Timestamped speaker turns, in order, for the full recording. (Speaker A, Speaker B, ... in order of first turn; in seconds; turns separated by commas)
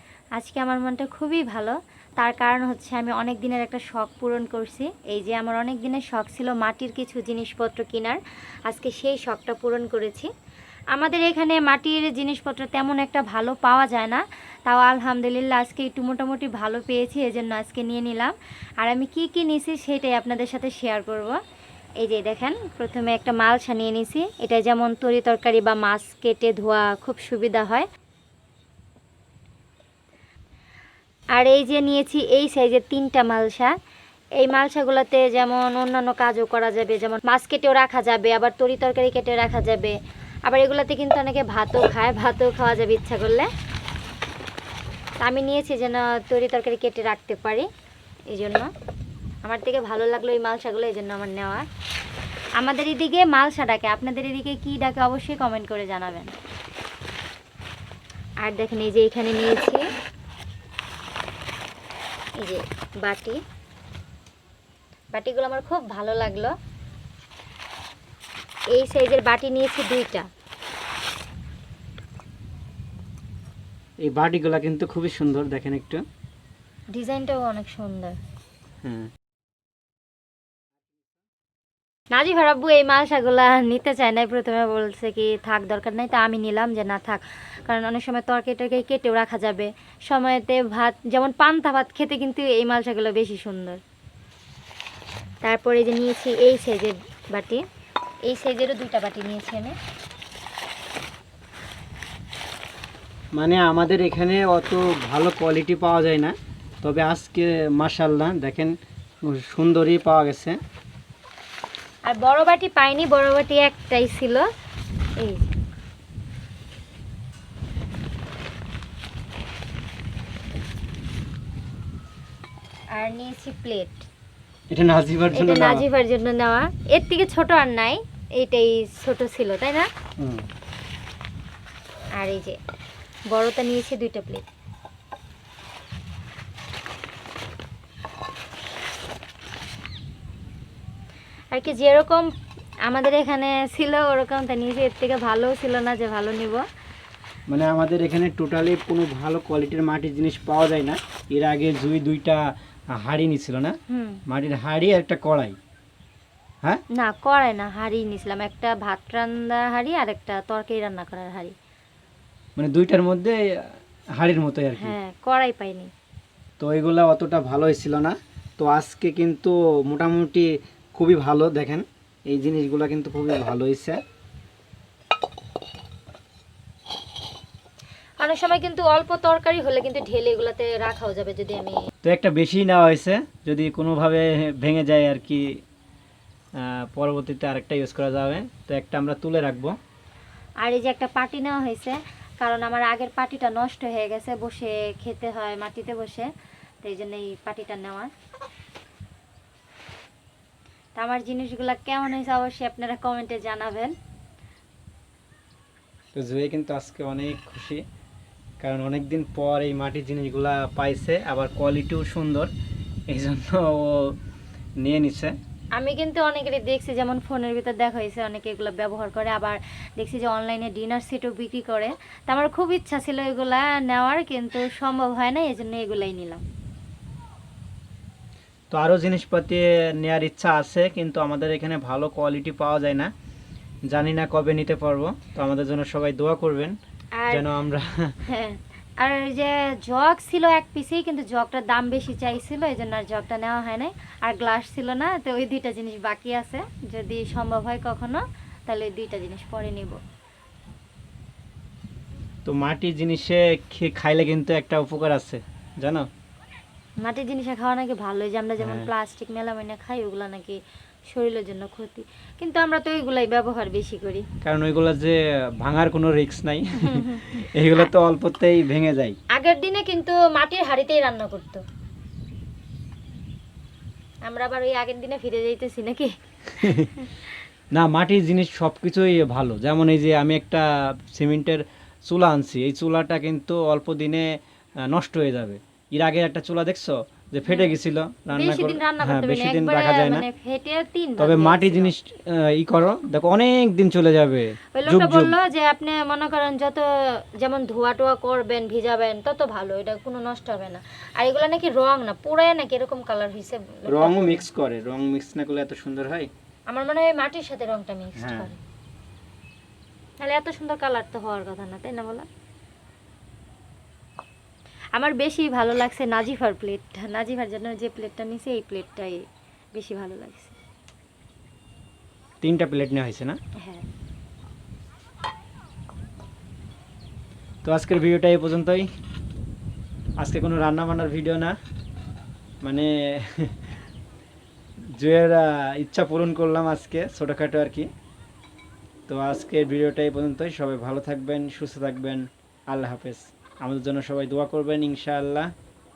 Speaker A: 0.3-10.3, Speaker A: 10.9-21.4, Speaker A: 22.0-27.9, Speaker A: 31.3-33.7, Speaker A: 34.4-43.5, Speaker A: 45.2-47.7, Speaker A: 48.3-48.7, Speaker A: 49.4-51.6, Speaker A: 52.6-56.4, Speaker A: 58.4-59.8, Speaker A: 62.4-63.4, Speaker A: 65.1-66.5, Speaker A: 68.7-70.3, Speaker B: 74.0-76.0, Speaker A: 76.9-78.2, Speaker B: 78.8-79.1, Speaker A: 82.1-93.8, Speaker A: 95.4-97.6, Speaker A: 98.3-99.8, Speaker B: 103.3-110.6, Speaker A: 112.0-114.5, Speaker A: 115.2-115.5, Speaker A: 122.9-124.1, Speaker B: 124.7-125.8, Speaker A: 125.3-129.9, Speaker B: 130.2-130.5, Speaker A: 132.1-132.6, Speaker A: 133.3-134.4, Speaker A: 141.5-142.3, Speaker A: 142.8-146.6, Speaker B: 147.5-155.6, Speaker A: 153.9-154.2, Speaker A: 156.9-161.5, Speaker B: 162.6-164.9, Speaker A: 164.8-165.9, Speaker B: 166.6-174.0, Speaker A: 178.2-181.9, Speaker B: 182.0-185.6, Speaker B: 186.6-189.8, Speaker A: 190.6-196.3, Speaker A: 196.8-198.1, Speaker A: 201.0-203.9, Speaker B: 206.1-207.8, Speaker B: 208.6-212.5, Speaker B: 213.1-214.2, Speaker B: 214.8-215.3, Speaker A: 215.8-226.4, Speaker B: 228.7-233.1, Speaker B: 233.9-236.8, Speaker A: 237.2-237.5, Speaker B: 237.3-238.1, Speaker A: 238.3-250.0, Speaker B: 252.4-256.1, Speaker A: 257.0-260.6, Speaker B: 258.6-258.9, Speaker A: 261.1-264.2, Speaker B: 264.4-269.1, Speaker A: 266.8-267.9, Speaker A: 269.3-271.6, Speaker A: 274.2-277.2, Speaker B: 276.6-276.9, Speaker B: 277.7-290.2, Speaker A: 287.5-287.7, Speaker A: 288.3-291.9, Speaker B: 291.2-295.4, Speaker A: 294.7-304.4, Speaker B: 303.9-306.3, Speaker A: 306.7-308.6, Speaker B: 308.2-308.5, Speaker A: 310.2-312.3, Speaker A: 314.9-319.2, Speaker A: 319.7-320.6, Speaker B: 322.4-323.4, Speaker A: 323.6-323.9, Speaker B: 327.6-328.9, Speaker B: 330.2-331.5, Speaker B: 332.6-333.6, Speaker B: 334.9-337.9, Speaker B: 339.1-345.5